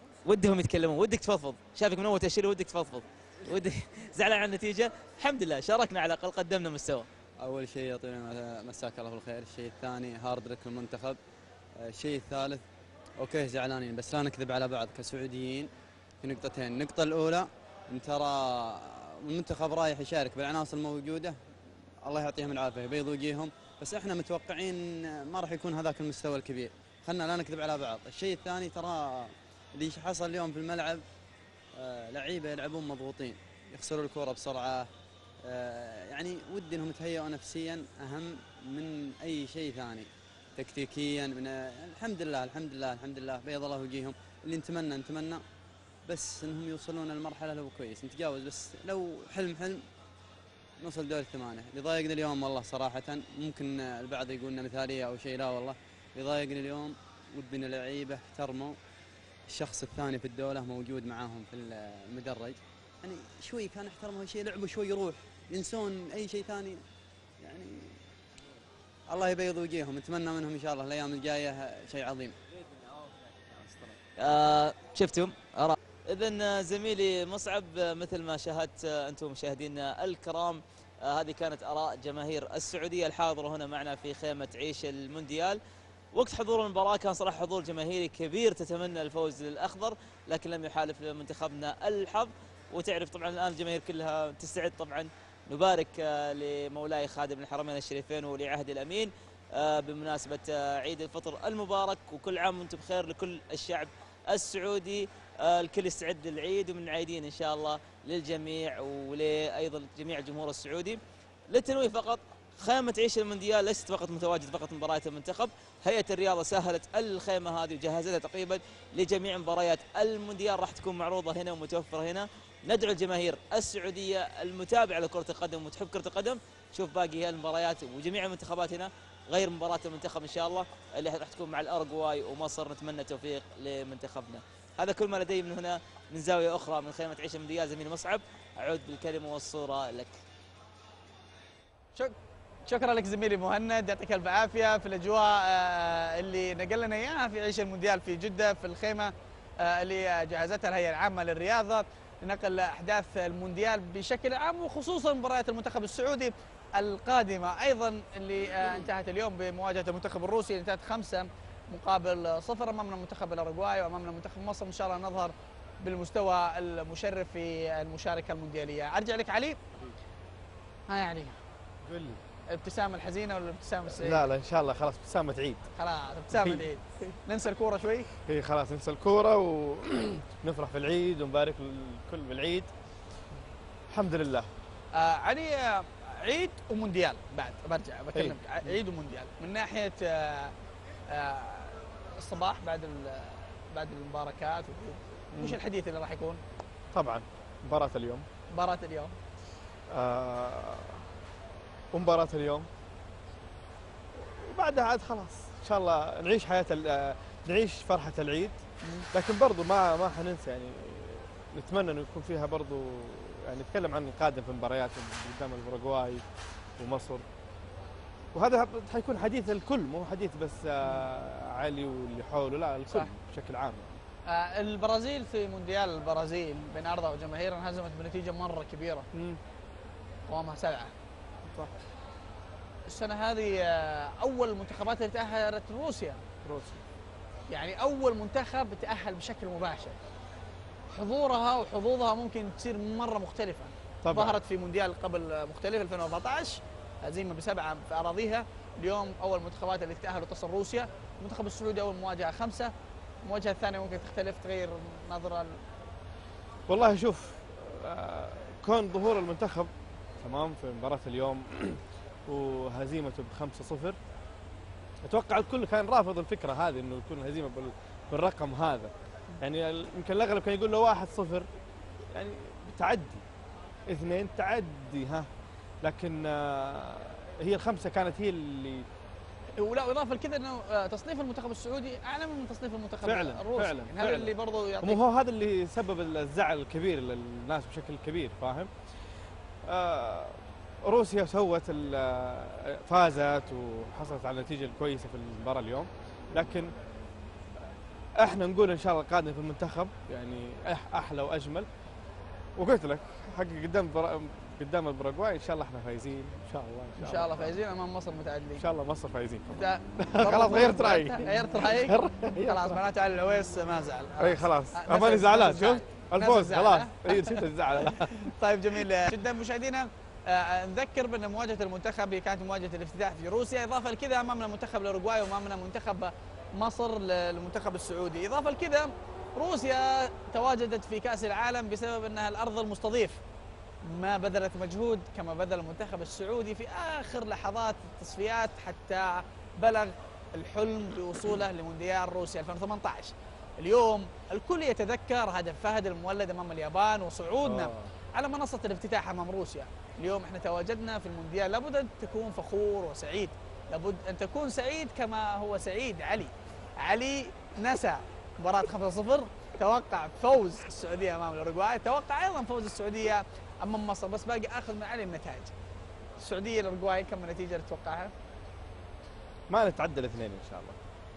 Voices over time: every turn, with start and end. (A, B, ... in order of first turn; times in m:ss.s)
0:00.3-0:07.1 A
0:07.4-0:11.2 B
0:11.8-0:12.6 B
0:13.2-0:15.7 B
0:16.2-0:21.4 B
0:22.0-0:31.0 B
0:31.8-0:34.9 B
0:35.4-0:45.4 B
0:46.1-0:49.8 B
0:50.8-0:58.8 B
0:59.5-1:06.8 B
1:07.4-1:08.0 B
1:09.1-1:12.4 B
1:14.2-1:25.6 A
1:26.1-2:20.2 A
2:22.7-2:49.6 C
2:50.9-2:51.4 C
2:51.8-2:52.2 D
2:52.5-2:54.2 C
2:53.9-2:55.6 D
2:55.8-2:58.1 C
2:56.3-2:56.6 D
2:58.2-3:02.7 D
3:03.9-3:04.5 D
3:05.0-3:10.5 C
3:08.2-3:08.7 D
3:11.1-3:16.4 C
3:16.9-3:18.2 D
3:18.6-3:19.2 C
3:19.9-3:21.0 D
3:21.9-3:22.7 D
3:24.2-3:28.6 D
3:29.1-3:36.2 D
3:36.8-3:37.2 D
3:38.3-3:44.0 D
3:44.3-3:49.1 C
3:49.1-3:49.4 D
3:50.3-3:50.9 C
3:52.9-3:56.2 C
3:56.4-3:56.8 D
3:57.5-4:00.0 C
4:00.9-4:12.7 C
4:04.0-4:04.4 D
4:13.2-4:15.6 C
4:16.7-4:24.0 D
4:25.0-4:31.5 D
4:32.1-4:33.2 D
4:33.9-4:35.3 D
4:35.8-4:38.9 D
4:39.6-4:45.0 C
4:43.0-4:48.7 D
4:49.7-4:56.7 D
4:58.2-5:01.7 D
5:02.6-5:07.5 D
5:07.0-5:08.6 C
5:08.6-5:12.8 D
5:09.5-5:33.2 C
5:14.2-5:18.8 D
5:33.8-6:05.5 C
5:47.4-5:47.9 D
6:06.2-6:08.1 C
6:09.5-6:10.8 D